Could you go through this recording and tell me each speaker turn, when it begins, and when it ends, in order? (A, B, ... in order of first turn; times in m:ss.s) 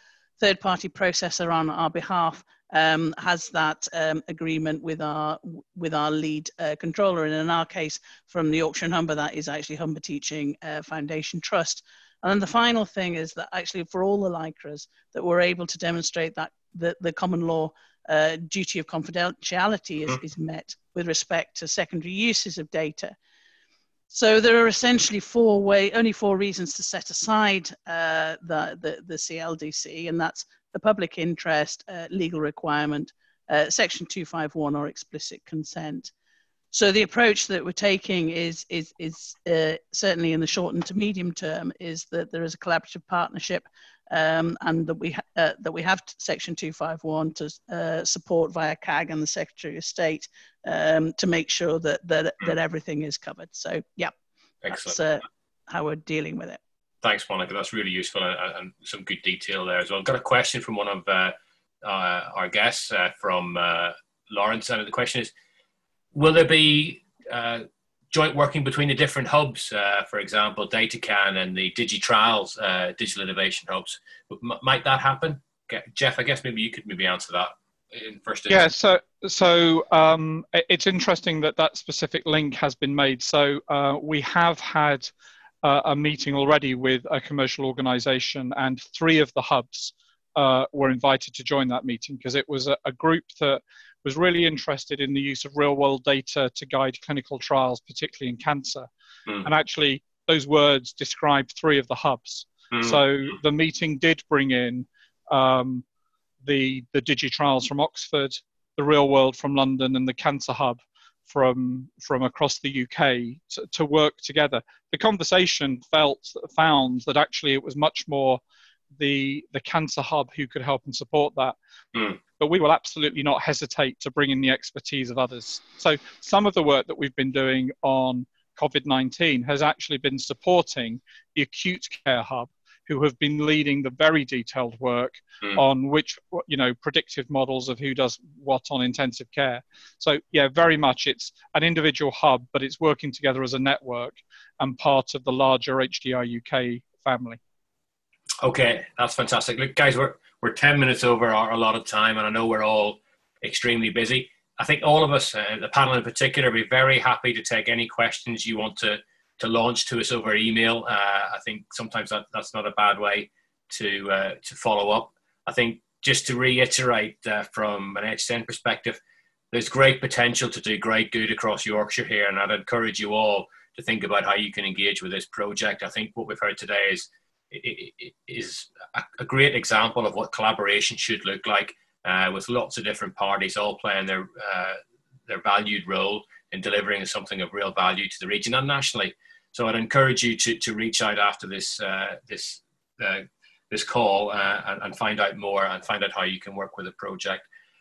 0:00.4-0:23.2 A
0:24.1-0:36.1 A
0:36.7-0:54.1 A
0:54.6-0:55.0 B
0:54.7-0:56.6 A
0:57.0-1:05.3 B
1:06.1-1:18.7 B
1:18.5-1:25.1 C
1:25.6-1:38.9 C
1:39.4-1:45.8 C
1:42.7-1:43.0 B
1:46.4-1:58.4 C
1:59.0-2:01.6 C
2:02.4-2:27.4 C
2:28.4-2:49.0 B
2:49.5-3:17.5 B